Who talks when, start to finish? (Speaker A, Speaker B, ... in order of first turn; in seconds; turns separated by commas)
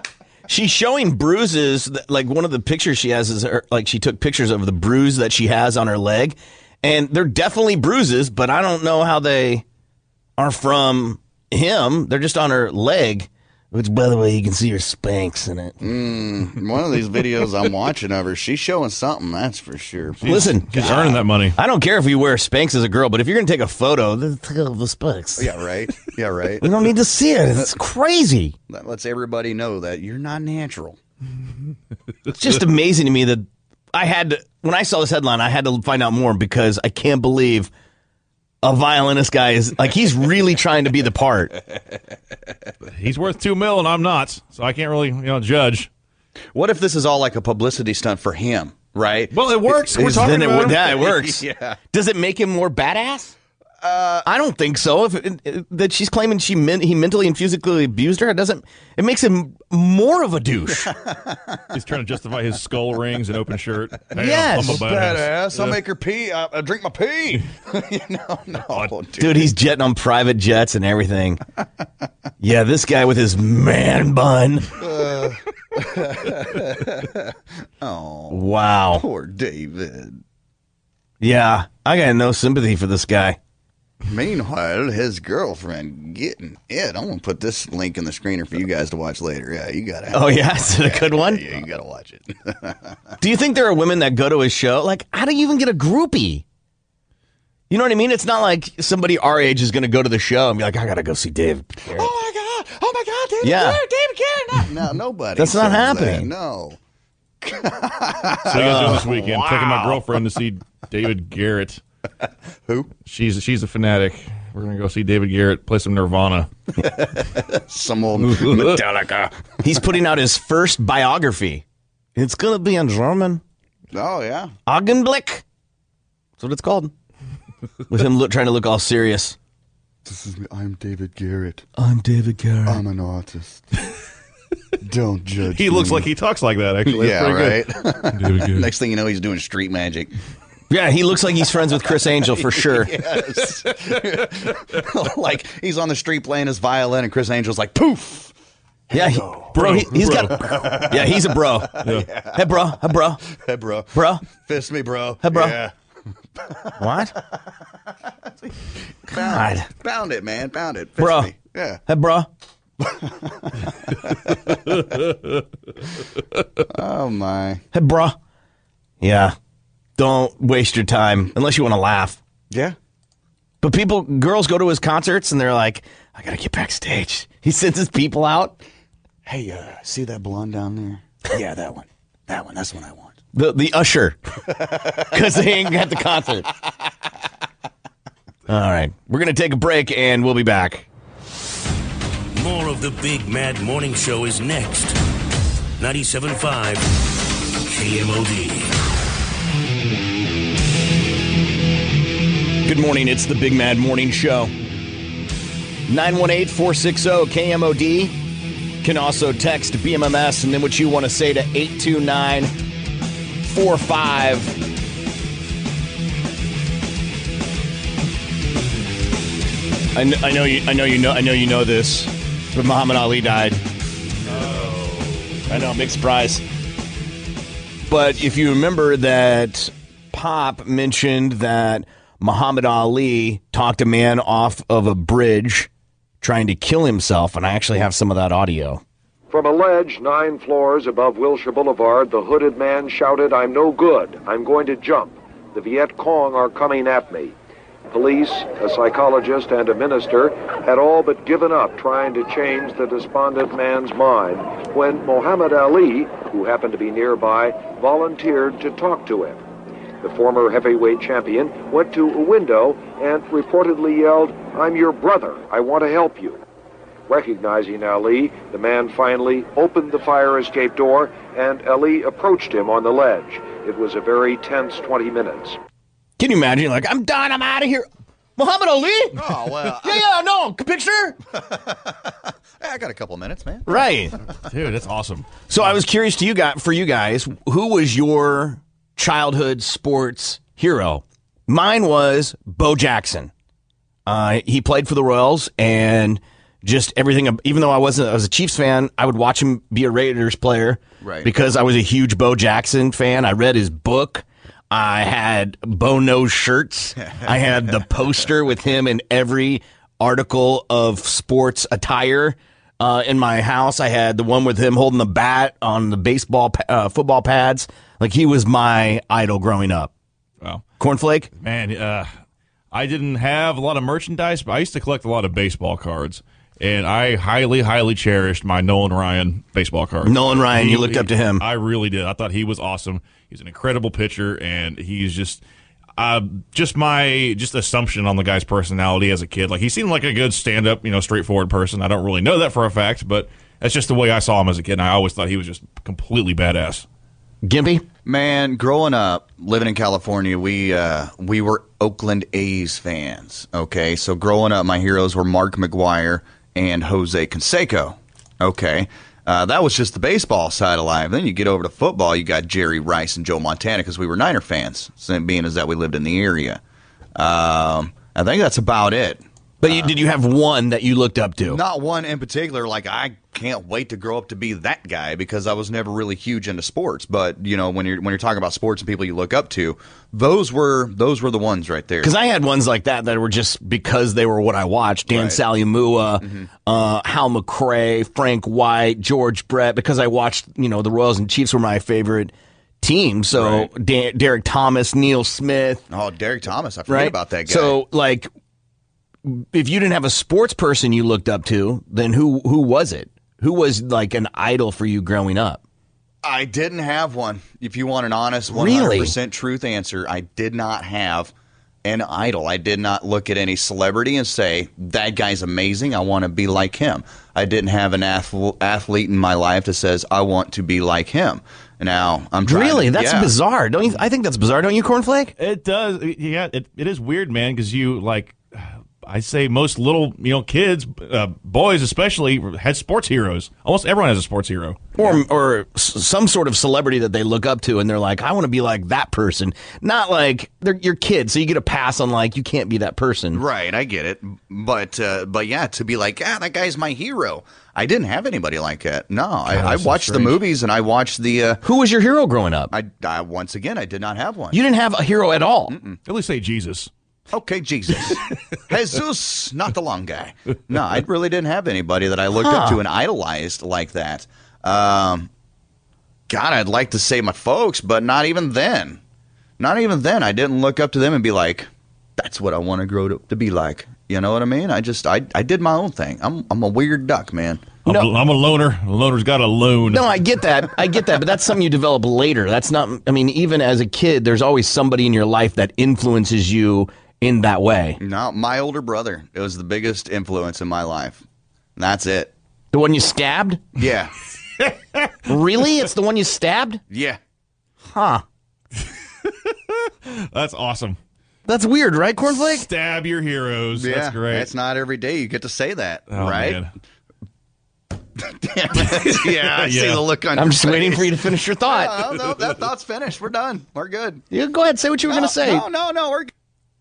Speaker A: 0.5-9.6, Speaker A: 10.4-15.8, Speaker B: 15.8-20.3, Speaker C: 20.2-21.6, Speaker A: 20.3-25.5, Speaker B: 25.4-26.7, Speaker A: 26.6-28.6, Speaker B: 28.7-31.0, Speaker A: 32.3-37.7, Speaker A: 38.6-41.5, Speaker C: 42.9-45.9, Speaker B: 46.5-51.8, Speaker C: 49.3-51.1, Speaker A: 49.9-53.4, Speaker B: 53.8-54.3, Speaker A: 54.2-60.9, Speaker B: 60.8-61.7, Speaker C: 61.7-65.8, Speaker A: 64.2-64.8, Speaker B: 64.6-69.5, Speaker A: 69.2-71.4, Speaker A: 72.4-74.7, Speaker B: 74.8-80.2, Speaker A: 78.3-79.0, Speaker A: 81.2-83.4, Speaker B: 84.0-93.1, Speaker A: 90.1-91.5, Speaker A: 93.2-96.4, Speaker A: 97.7-102.1, Speaker B: 101.9-106.8, Speaker A: 103.4-103.8, Speaker A: 105.4-106.3, Speaker B: 107.4-110.0, Speaker C: 108.5-111.8, Speaker A: 108.5-109.0, Speaker B: 112.7-112.9, Speaker C: 113.0-116.5, Speaker B: 116.8-119.3, Speaker C: 118.2-118.8, Speaker A: 119.6-121.6, Speaker A: 122.2-123.4, Speaker B: 123.9-124.5, Speaker A: 124.7-125.4, Speaker A: 126.4-126.9, Speaker A: 127.9-129.4, Speaker B: 130.1-131.7, Speaker A: 131.8-132.8, Speaker B: 132.7-133.6, Speaker B: 134.8-136.1, Speaker C: 135.5-138.7, Speaker B: 136.9-140.1, Speaker A: 140.7-142.9, Speaker B: 142.3-148.3, Speaker B: 148.9-152.7, Speaker A: 148.9-153.2, Speaker C: 149.5-150.7, Speaker B: 153.2-155.7, Speaker A: 153.9-154.2, Speaker A: 155.2-155.6, Speaker B: 156.3-158.5, Speaker A: 156.8-157.1, Speaker B: 159.1-161.8, Speaker A: 159.1-159.7, Speaker A: 161.0-161.3, Speaker A: 161.9-162.3, Speaker B: 162.8-164.8, Speaker B: 166.7-167.6, Speaker A: 167.7-168.2, Speaker A: 169.0-169.3, Speaker A: 170.0-172.2, Speaker B: 172.5-172.8, Speaker A: 173.6-178.6, Speaker B: 179.2-183.2, Speaker A: 183.3-184.2, Speaker B: 184.6-185.2, Speaker A: 185.0-186.5, Speaker A: 188.5-190.9, Speaker D: 192.3-195.0, Speaker D: 195.8-196.9, Speaker D: 197.7-198.7, Speaker A: 202.7-204.5, Speaker A: 205.9-208.1, Speaker A: 208.8-212.5, Speaker A: 213.5-214.5, Speaker A: 219.9-223.6, Speaker C: 224.4-224.8, Speaker B: 224.4-225.2, Speaker A: 225.5-226.4, Speaker A: 227.9-235.7, Speaker A: 236.2-238.8, Speaker E: 239.3-247.4, Speaker E: 247.9-259.4, Speaker E: 260.0-266.4, Speaker E: 267.1-275.6, Speaker A: 276.2-279.2, Speaker B: 279.1-280.0, Speaker A: 279.8-281.2, Speaker B: 281.3-283.9, Speaker A: 283.7-284.1, Speaker C: 284.5-285.5, Speaker A: 285.5-293.3, Speaker A: 294.1-319.9, Speaker B: 301.0-301.3, Speaker B: 307.0-307.8, Speaker A: 320.8-321.3, Speaker C: 321.4-322.1, Speaker C: 322.7-335.4, Speaker A: 330.1-331.4, Speaker C: 336.0-346.9, Speaker A: 347.4-347.9, Speaker B: 348.1-366.6, Speaker B: 367.2-369.9, Speaker A: 369.6-371.6, Speaker B: 371.4-382.1, Speaker A: 382.0-395.9, Speaker B: 385.1-385.4, Speaker B: 386.2-386.5, Speaker B: 395.9-397.8, Speaker A: 396.9-398.3, Speaker A: 399.3-405.6, Speaker B: 406.2-411.3, Speaker A: 408.5-409.1, Speaker B: 411.8-423.3, Speaker A: 422.4-425.4, Speaker C: 425.4-435.2, Speaker A: 435.0-443.4, Speaker B: 443.3-451.6, Speaker A: 449.5-450.4, Speaker A: 451.6-452.7, Speaker B: 452.7-454.6, Speaker A: 454.5-455.8, Speaker B: 455.7-456.0, Speaker C: 456.1-456.9, Speaker B: 457.3-465.3, Speaker A: 462.3-462.8, Speaker B: 466.3-469.0, Speaker B: 469.6-477.7, Speaker C: 477.9-480.2, Speaker A: 479.9-488.0, Speaker B: 488.0-491.2, Speaker B: 491.8-492.3, Speaker A: 492.7-493.6, Speaker B: 493.8-494.1, Speaker C: 494.6-495.1, Speaker A: 495.3-496.8, Speaker B: 496.9-497.2, Speaker A: 497.9-498.2, Speaker C: 499.2-499.5, Speaker C: 500.1-501.0, Speaker A: 501.5-502.7, Speaker C: 502.2-504.5, Speaker B: 503.8-506.6, Speaker C: 506.1-506.7, Speaker B: 508.2-511.1, Speaker C: 508.8-510.1, Speaker A: 510.4-512.0, Speaker B: 511.6-514.2, Speaker A: 514.3-515.6, Speaker B: 515.1-516.3